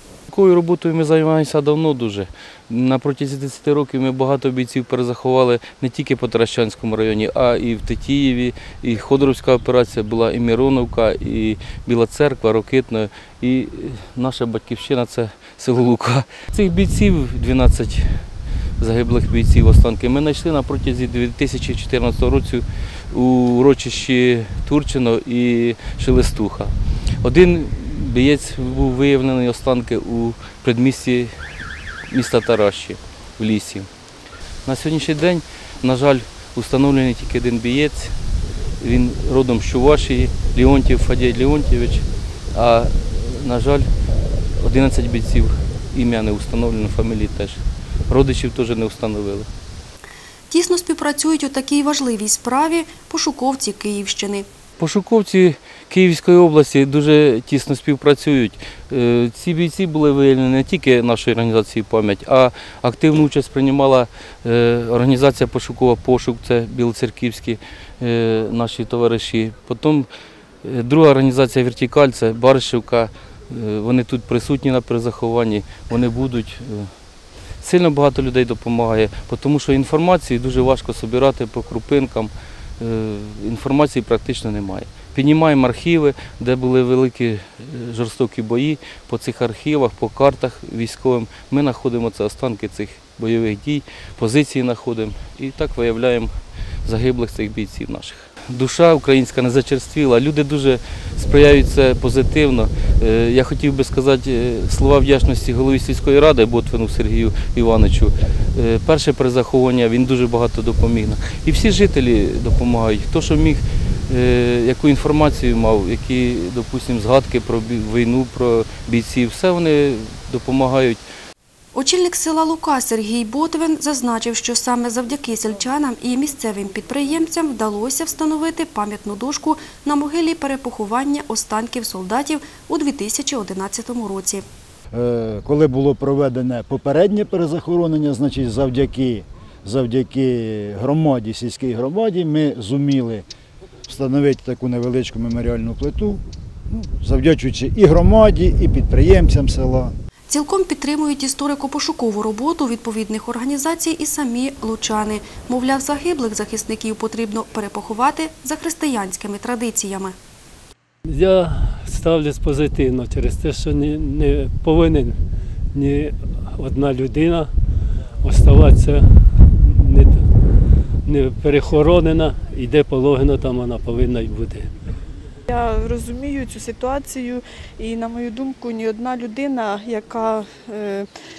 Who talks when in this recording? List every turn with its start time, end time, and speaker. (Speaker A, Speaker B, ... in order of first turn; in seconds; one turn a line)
Speaker A: 0.3-18.1
Speaker A: 18.8-31.4
Speaker A: 32.1-33.9
Speaker A: 34.6-38.1
Speaker A: 38.8-43.8
Speaker A: 44.6-49.5
Speaker B: 50.5-54.5
Speaker A: 54.8-70.1
Speaker A: 70.6-76.9
Speaker A: 77.6-96.3
Speaker A: 96.8-121.0
Speaker B: 121.7-134.4
Speaker C: 134.9-143.2
Speaker C: 143.9-149.9
Speaker B: 150.3-160.1
Speaker D: 161.0-165.2
Speaker D: 165.7-167.5
Speaker D: 168.2-170.3
Speaker D: 171.0-174.7
Speaker E: 175.5-181.1